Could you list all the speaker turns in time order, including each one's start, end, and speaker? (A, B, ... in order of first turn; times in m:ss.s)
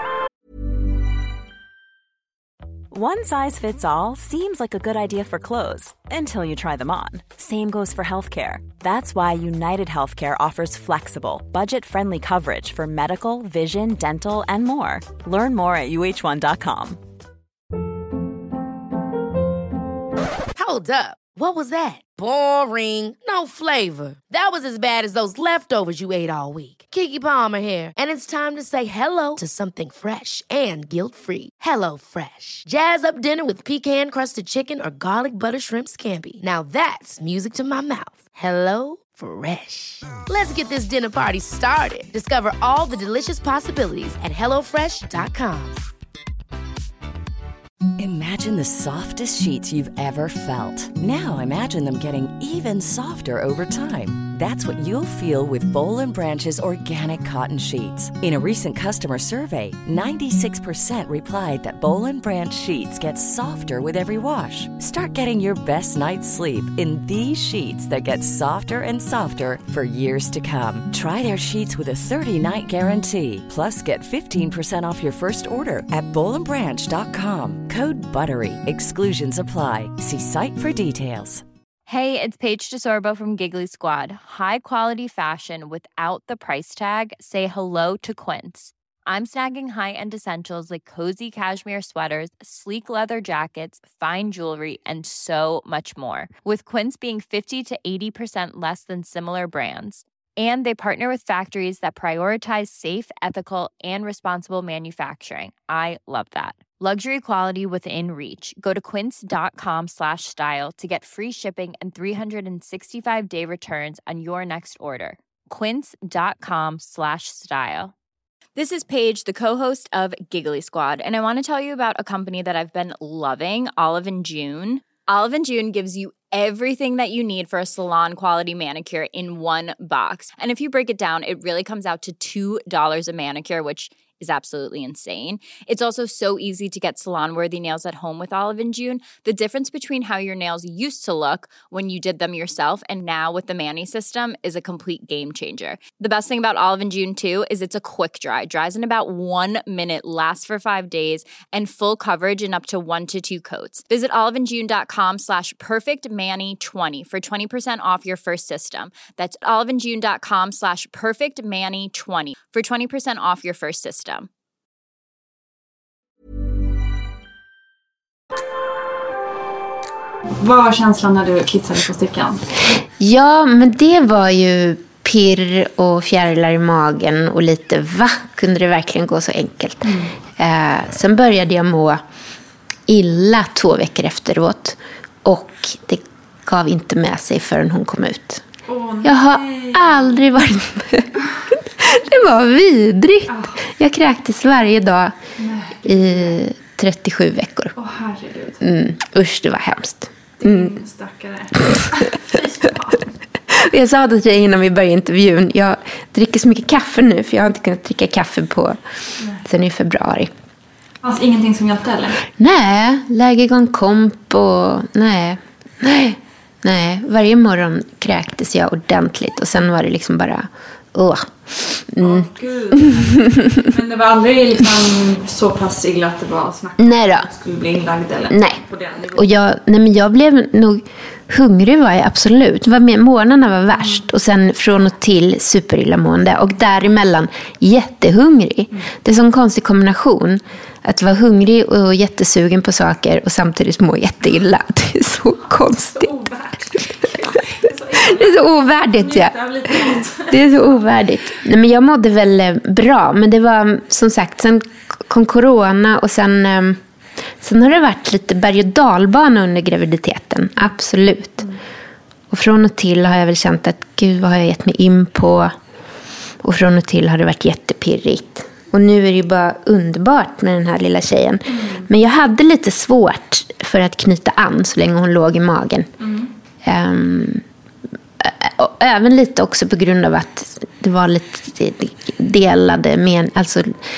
0:02.9-0:17.0 A
0:20.6-0:45.8 B
0:48.0-1:21.4 C
1:21.9-1:57.9 D
1:58.6-2:44.3 D
2:50.4-2:52.4 E
2:53.0-3:02.0 F
2:59.8-3:00.1 E
3:02.9-3:08.4 F
3:08.7-3:10.2 E
3:09.0-3:11.1 F
3:11.6-3:15.2 F
3:13.3-3:13.6 E
3:15.4-3:16.4 E
3:15.8-3:17.7 F
3:17.8-3:18.6 E
3:18.6-3:20.8 F
3:20.4-3:23.1 E
3:23.5-3:28.8 F
3:29.4-3:30.3 F
3:31.0-3:32.2 E
3:32.3-3:42.3 F
3:42.0-3:49.3 E
3:42.8-3:43.3 F
3:46.8-3:47.3 F
3:48.3-3:48.6 F
3:49.1-4:06.1 F
4:05.9-4:10.8 E
4:08.0-4:16.8 F
4:17.4-4:21.5 F
4:22.3-4:25.5 F
4:26.4-4:35.9 F
4:31.5-4:31.9 E
4:36.0-4:36.3 E
4:36.6-4:37.4 F
4:38.2-4:43.8 F